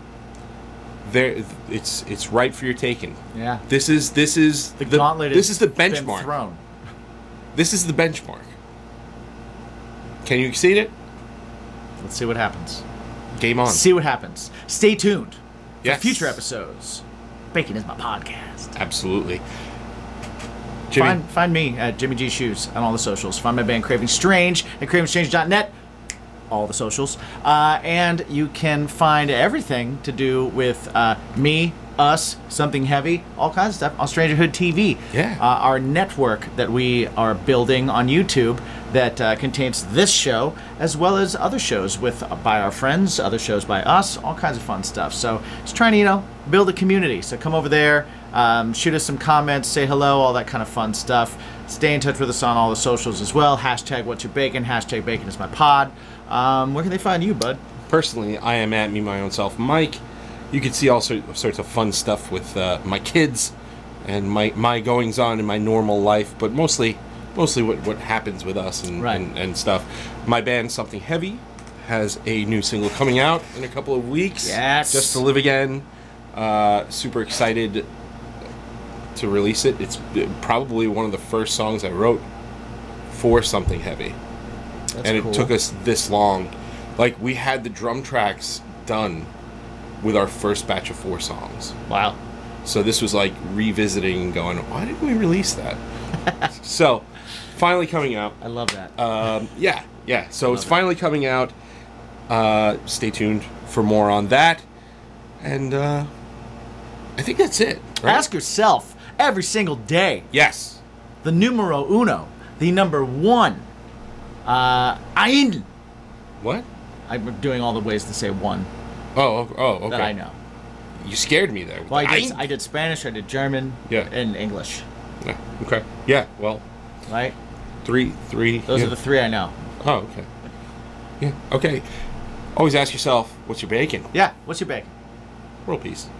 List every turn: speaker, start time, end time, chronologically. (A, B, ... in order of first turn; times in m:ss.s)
0:01.0-0:06.3 A
0:03.3-0:03.6 B
0:04.8-0:06.6 B
0:07.5-0:08.5 A
0:10.2-0:10.9 A
0:12.0-0:12.8 B
0:13.4-0:13.8 A
0:13.7-0:18.7 B
0:15.8-0:16.4 A
0:18.8-0:19.4 A
0:20.9-0:21.2 A
0:20.9-0:25.7 B
0:26.5-0:57.6 B
0:35.1-0:35.4 A
0:57.9-1:03.5 A
1:04.0-1:17.9 A
1:09.0-1:09.2 B
1:14.4-1:15.2 B
1:19.1-1:22.2 A
1:23.1-1:24.2 A
1:24.9-1:25.5 B
1:25.0-1:29.3 A
1:30.0-1:31.8 A
1:31.9-1:32.2 B
1:32.6-1:35.8 A
1:36.6-1:38.4 A
1:38.4-1:38.9 B
1:39.0-1:41.5 A
1:40.5-1:40.8 B
1:42.3-1:44.6 A
1:45.4-1:46.1 A
1:47.2-1:48.2 A
1:48.0-1:50.3 B
1:50.3-1:50.8 A
1:51.2-1:53.7 B
1:54.4-1:55.7 B
1:56.4-1:56.6 A
1:57.1-1:58.7 B
1:59.1-2:00.1 A
1:59.9-2:00.4 B
2:01.0-2:02.4 A
2:01.9-2:04.8 B
2:05.2-2:06.6 A
2:07.1-2:07.4 B
2:07.8-2:08.9 A
2:08.7-2:09.5 B
2:09.8-2:10.3 A
2:11.2-2:11.8 A
2:12.5-2:14.1 A
2:14.1-2:14.9 B
2:15.6-2:16.1 A